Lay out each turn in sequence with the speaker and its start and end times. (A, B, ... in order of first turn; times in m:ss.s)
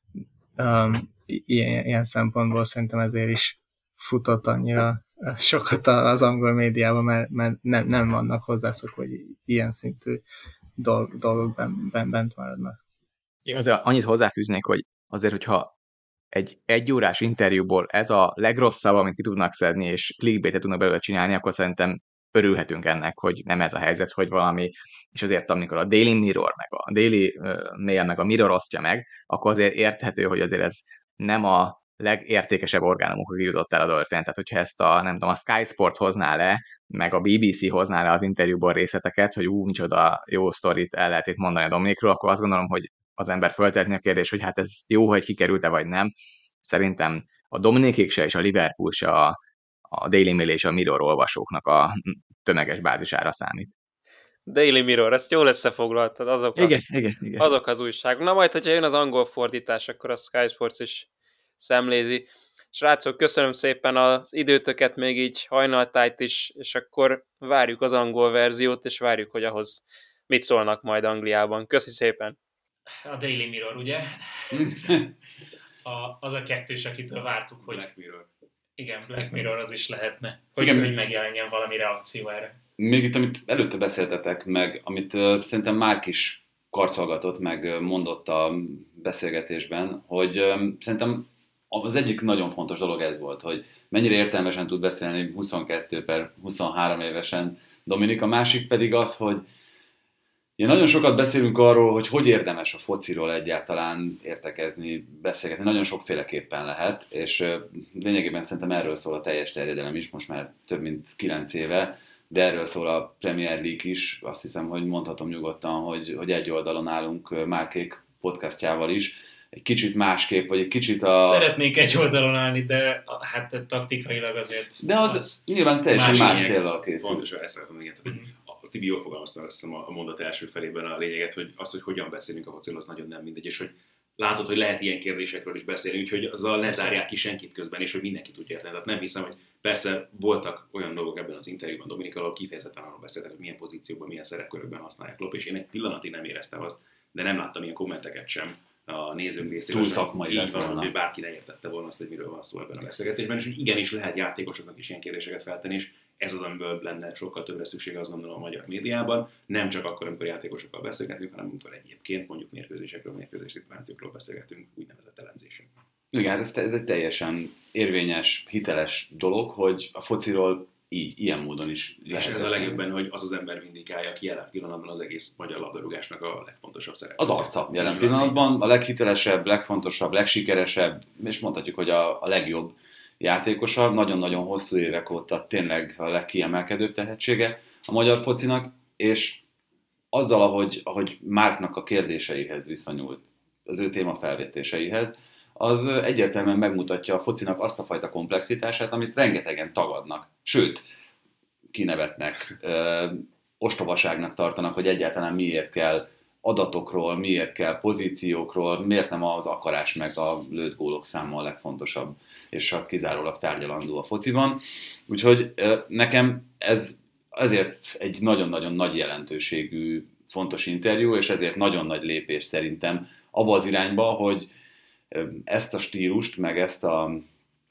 0:00.6-0:10.2 A
0:10.8-0:12.8 A
0:13.4-0:15.7 B
0:16.3-0:49.4 B
0:49.9-0:53.7 B
0:54.5-0:56.8 C
0:56.6-0:57.5 B
0:57.4-1:01.1 C
1:01.6-1:12.4 C
1:13.0-1:14.6 D
1:14.5-1:15.1 E
1:15.8-1:17.9 D
1:17.6-1:18.3 F
1:18.8-1:22.6 D
1:20.6-1:20.9 E
1:22.8-1:39.4 E
1:40.6-2:01.5 E
2:01.2-2:05.4 D
2:04.8-2:07.2 E
2:05.9-2:45.7 F
2:05.9-2:06.5 D
2:16.7-2:17.0 D
2:29.4-2:30.9 E
2:46.1-2:52.9 E
2:52.1-2:58.4 F
2:57.2-3:09.4 E
3:10.1-3:20.8 E
3:21.7-3:44.5 E
3:45.1-3:47.2 E